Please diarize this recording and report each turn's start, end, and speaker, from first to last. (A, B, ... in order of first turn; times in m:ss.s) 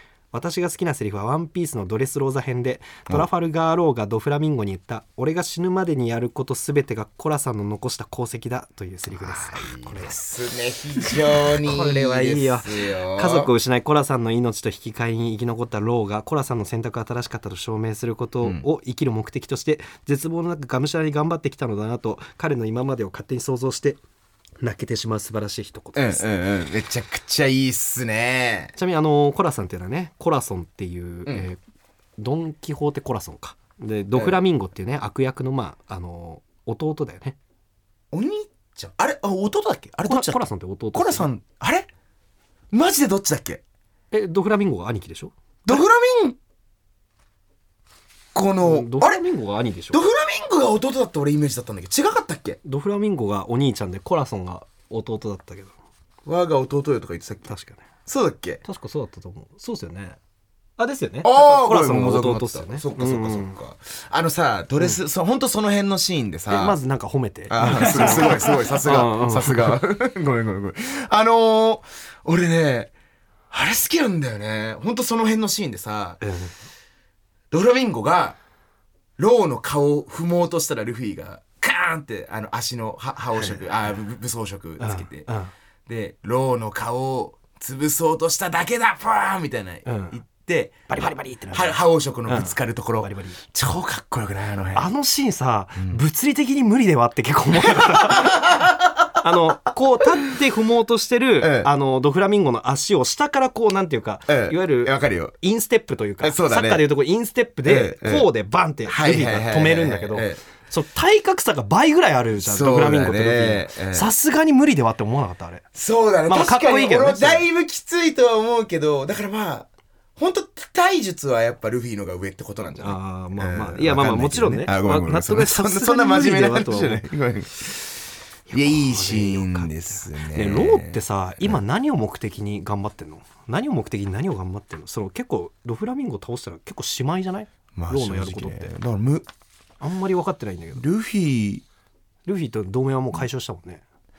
0:00.3-0:10.2 A
0:09.1-0:13.5 B
0:11.1-0:24.0 A
0:24.6-0:26.2 A
0:25.9-0:28.7 B
0:28.8-0:31.6 A
0:32.2-0:37.4 A
0:38.1-0:41.9 B
0:40.0-0:41.3 A
0:42.7-0:43.6 B
0:44.1-0:45.8 A
0:45.6-0:46.4 B
0:48.3-0:49.2 B
0:48.6-0:50.0 A
0:49.9-0:52.6 B
0:52.6-0:55.7 A
0:56.2-0:57.5 B
0:57.4-0:57.8 A
0:58.0-0:58.6 B
0:58.6-1:00.2 A
1:00.8-1:03.6 A
1:01.2-1:06.8 B
1:06.5-1:09.8 A
1:07.5-1:12.9 B
1:13.5-1:16.2 B
1:16.2-1:16.5 A
1:17.5-1:18.4 B
1:19.2-1:25.3 B
1:23.4-1:23.6 A
1:24.8-1:25.5 A
1:25.8-1:30.8 B
1:29.8-1:30.2 A
1:30.9-1:33.4 A
1:31.5-1:34.9 B
1:34.7-1:38.5 A
1:35.8-1:36.0 B
1:37.6-1:39.2 B
1:39.2-1:55.6 A
1:41.4-1:41.7 B
1:44.3-1:45.3 B
1:46.2-1:46.8 B
1:47.6-1:48.3 B
1:48.9-1:50.4 B
1:52.4-1:54.1 B
1:55.7-2:07.8 B
1:56.3-1:57.4 A
2:02.8-2:07.0 A
2:08.5-2:18.7 A
2:08.5-2:11.6 B
2:17.7-2:19.3 B
2:19.8-2:20.8 A
2:20.8-2:21.6 B
2:22.2-2:23.8 A